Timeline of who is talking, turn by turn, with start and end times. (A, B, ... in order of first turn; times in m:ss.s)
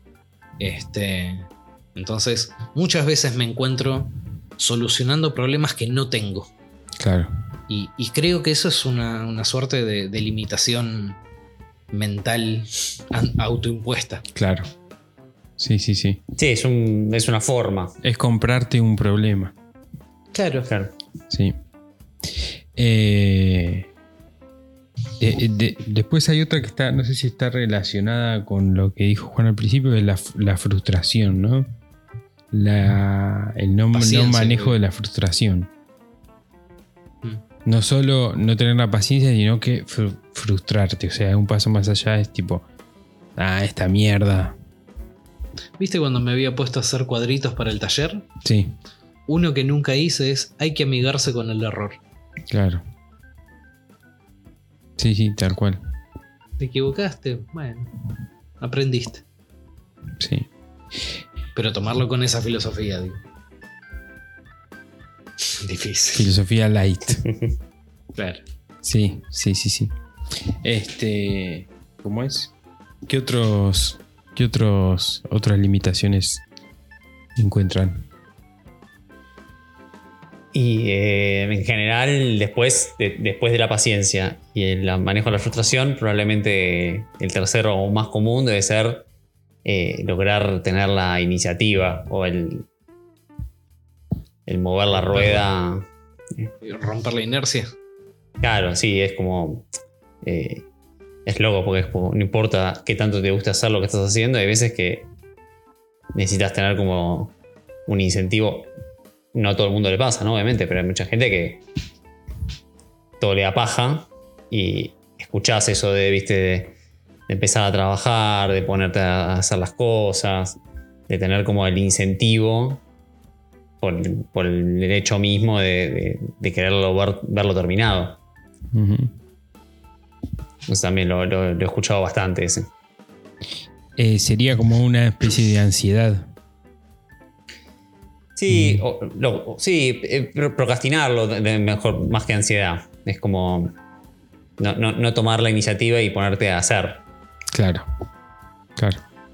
0:00.6-0:06.5 A
0:07.0-0:07.3 B
0:07.7-0:11.2 A
0:11.9-0:14.2 A
0:14.3-0:14.7 B
0:15.6-0:16.2 B
0:16.4-0:17.9 C
0:18.0-0:19.5 B
0:20.3-0:20.7 A
0:21.3-0:21.6 B
0:22.7-0:23.9 B
0:25.2-0:31.7 B
0:32.5-0:35.7 B
0:33.9-0:34.8 A
0:37.6-0:42.6 B
0:43.4-0:44.6 B
0:45.8-0:48.3 A
0:48.4-0:48.7 B
0:49.3-0:52.0 A
0:52.5-0:52.8 B
0:55.0-0:55.8 B
0:56.6-0:57.9 A
0:58.6-0:59.2 A
1:00.2-1:00.5 B
1:01.5-1:03.2 A
1:05.5-1:06.2 A
1:06.1-1:07.2 B
1:07.2-1:07.5 C
1:08.2-1:08.4 A
1:08.8-1:09.9 B
1:10.6-1:12.5 B
1:13.0-1:16.4 B
1:17.4-1:18.0 B
1:20.5-1:29.1 C
1:29.6-1:32.7 C
1:34.5-1:35.8 C
1:35.1-1:35.4 A
1:36.6-1:37.7 A
1:38.4-1:39.6 C
1:40.2-1:40.6 C
1:41.2-1:45.1 C
1:46.1-1:47.3 C
1:47.9-1:48.7 C
1:49.3-1:51.6 C
1:53.2-1:56.8 C
1:57.3-2:00.6 C
2:01.1-2:02.8 C
2:03.8-2:08.2 C
2:08.7-2:09.1 B
2:10.7-2:12.7 C
2:14.0-2:16.3 B
2:18.4-2:23.7 C
2:18.5-2:18.8 B
2:24.6-2:27.0 C
2:27.5-2:27.9 B